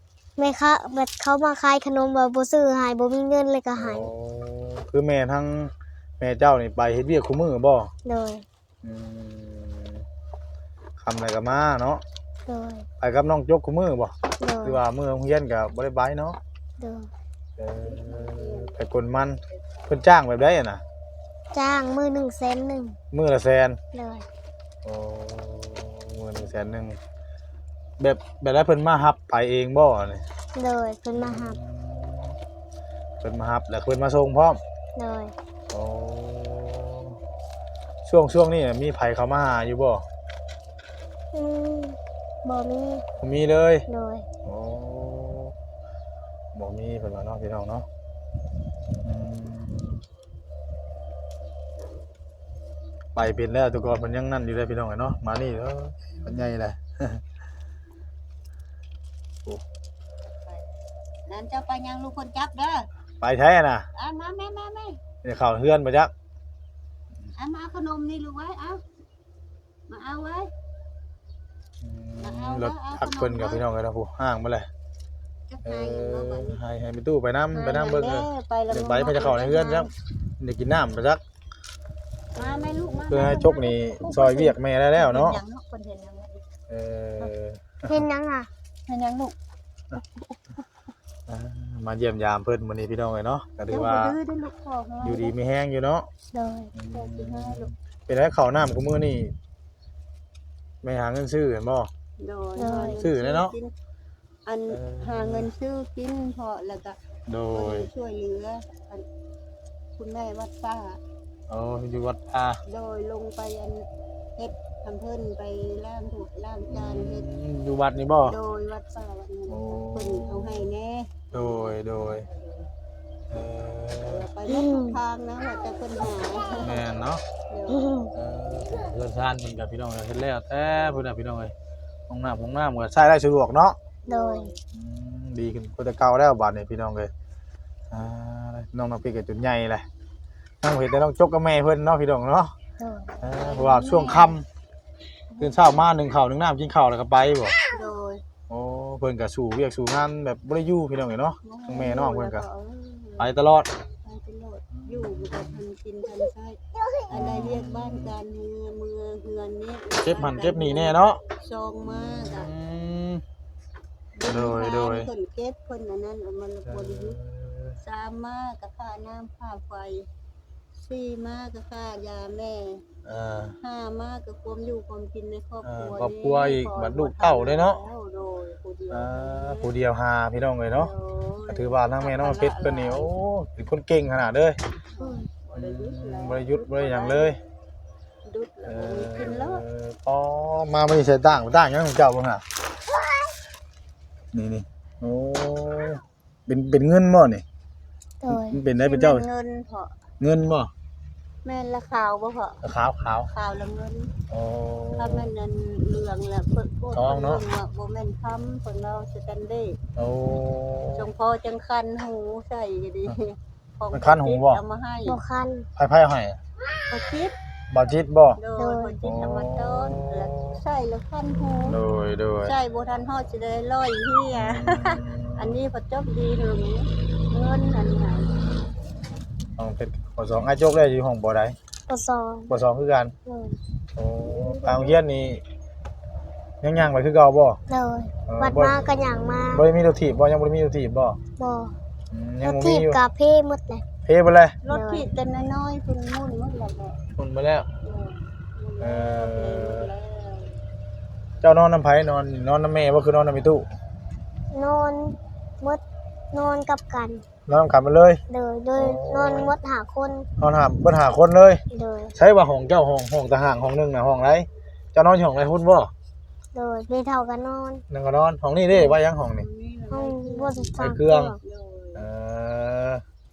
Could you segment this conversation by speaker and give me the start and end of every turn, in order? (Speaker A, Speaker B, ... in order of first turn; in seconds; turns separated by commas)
Speaker A: 0.4-4.1, Speaker B: 3.8-7.9, Speaker A: 8.1-8.4, Speaker B: 8.8-10.0, Speaker B: 11.0-12.0, Speaker A: 12.5-12.9, Speaker B: 13.0-16.4, Speaker A: 14.4-14.8, Speaker A: 16.8-17.1, Speaker B: 17.6-20.8, Speaker C: 17.9-18.7, Speaker A: 21.5-23.0, Speaker B: 23.1-23.8, Speaker A: 23.9-24.2, Speaker B: 24.8-27.0, Speaker B: 28.0-30.2, Speaker A: 30.6-31.6, Speaker B: 31.2-32.3, Speaker B: 33.2-34.6, Speaker A: 35.0-35.3, Speaker B: 35.7-37.2, Speaker B: 38.0-40.0, Speaker A: 41.3-43.0, Speaker B: 43.2-43.9, Speaker A: 43.9-44.3, Speaker B: 44.5-45.5, Speaker B: 46.5-47.9, Speaker B: 49.0-50.0, Speaker B: 53.1-57.2, Speaker C: 56.3-56.5, Speaker C: 60.3-60.7, Speaker C: 61.3-62.9, Speaker B: 63.2-63.9, Speaker C: 63.9-65.0, Speaker B: 65.2-66.1, Speaker C: 67.3-68.8, Speaker C: 69.9-70.5, Speaker B: 71.8-74.7, Speaker C: 72.2-73.7, Speaker C: 75.5-76.6, Speaker B: 75.6-81.2, Speaker C: 77.5-79.9, Speaker C: 82.3-86.4, Speaker B: 82.5-85.4, Speaker B: 86.7-88.0, Speaker A: 87.9-88.5, Speaker C: 88.9-89.4, Speaker B: 91.3-94.2, Speaker C: 93.7-95.4, Speaker B: 95.0-96.1, Speaker A: 96.3-96.7, Speaker B: 96.7-99.3, Speaker C: 96.9-97.7, Speaker B: 100.8-101.9, Speaker C: 102.2-103.7, Speaker A: 102.6-103.0, Speaker B: 103.0-103.5, Speaker C: 104.5-107.0, Speaker B: 104.7-105.5, Speaker B: 107.3-107.9, Speaker C: 107.5-109.1, Speaker C: 110.0-111.0, Speaker B: 111.5-112.6, Speaker C: 112.7-117.3, Speaker B: 116.7-118.4, Speaker C: 118.2-122.6, Speaker B: 119.5-120.7, Speaker B: 121.3-122.3, Speaker B: 123.3-124.3, Speaker C: 124.0-126.9, Speaker A: 124.5-125.0, Speaker B: 126.6-127.2, Speaker C: 127.5-128.0, Speaker A: 127.7-128.1, Speaker B: 128.1-131.5, Speaker B: 132.1-133.8, Speaker C: 134.1-134.6, Speaker A: 134.1-134.5, Speaker B: 134.7-137.1, Speaker B: 137.9-139.9, Speaker B: 140.6-142.5, Speaker A: 142.8-143.1, Speaker B: 143.2-144.5, Speaker C: 143.2-144.4, Speaker B: 145.4-147.6, Speaker C: 147.7-148.2, Speaker B: 148.5-152.4, Speaker C: 151.4-153.3, Speaker B: 153.2-153.7, Speaker C: 154.0-162.5, Speaker B: 154.7-155.6, Speaker B: 157.1-158.1, Speaker B: 160.0-161.2, Speaker B: 161.8-163.2, Speaker C: 164.1-167.2, Speaker B: 164.2-165.1, Speaker B: 166.7-167.8, Speaker C: 167.8-170.1, Speaker C: 170.8-172.8, Speaker B: 173.1-173.6, Speaker C: 173.6-179.8, Speaker B: 175.6-177.8, Speaker B: 178.9-180.9, Speaker C: 180.7-183.1, Speaker B: 181.5-184.6, Speaker C: 184.9-187.3, Speaker A: 185.0-185.3, Speaker B: 185.6-187.4, Speaker C: 188.3-189.7, Speaker B: 188.7-192.4, Speaker B: 194.3-197.4, Speaker A: 198.2-198.6, Speaker B: 198.3-199.3, Speaker C: 198.8-200.0, Speaker B: 200.2-200.7, Speaker C: 201.4-202.6, Speaker B: 202.6-203.3, Speaker C: 203.3-204.1, Speaker B: 204.3-205.3, Speaker C: 204.9-209.8, Speaker B: 206.9-207.4, Speaker B: 210.0-211.1, Speaker C: 210.9-215.2, Speaker B: 213.9-214.6, Speaker A: 215.1-215.7, Speaker B: 215.8-216.4, Speaker C: 216.9-217.3, Speaker B: 217.7-218.4, Speaker C: 218.4-221.8, Speaker A: 218.6-218.9, Speaker B: 219.0-220.6, Speaker B: 221.7-222.5, Speaker C: 222.4-228.4, Speaker B: 224.3-225.6, Speaker B: 229.6-231.6, Speaker A: 231.9-232.5, Speaker B: 232.5-233.1, Speaker A: 233.3-233.6, Speaker B: 233.9-235.4, Speaker C: 234.2-235.0, Speaker B: 236.6-237.6, Speaker A: 237.7-239.7, Speaker B: 238.3-238.8, Speaker B: 239.5-241.2, Speaker A: 241.4-241.8, Speaker B: 242.1-243.0, Speaker A: 242.4-243.8, Speaker B: 244.1-244.6, Speaker C: 244.6-247.0, Speaker A: 244.7-245.1, Speaker B: 247.1-247.7, Speaker C: 247.8-250.6, Speaker B: 248.8-249.9, Speaker B: 251.4-253.7, Speaker A: 254.5-257.2, Speaker B: 257.5-258.2, Speaker A: 258.3-260.3, Speaker B: 258.8-259.5, Speaker B: 260.4-261.6, Speaker A: 261.7-262.1, Speaker B: 262.1-265.9, Speaker A: 266.5-267.9, Speaker B: 267.9-269.5, Speaker C: 268.7-272.1, Speaker A: 269.9-271.4, Speaker B: 270.8-271.4, Speaker B: 271.9-273.0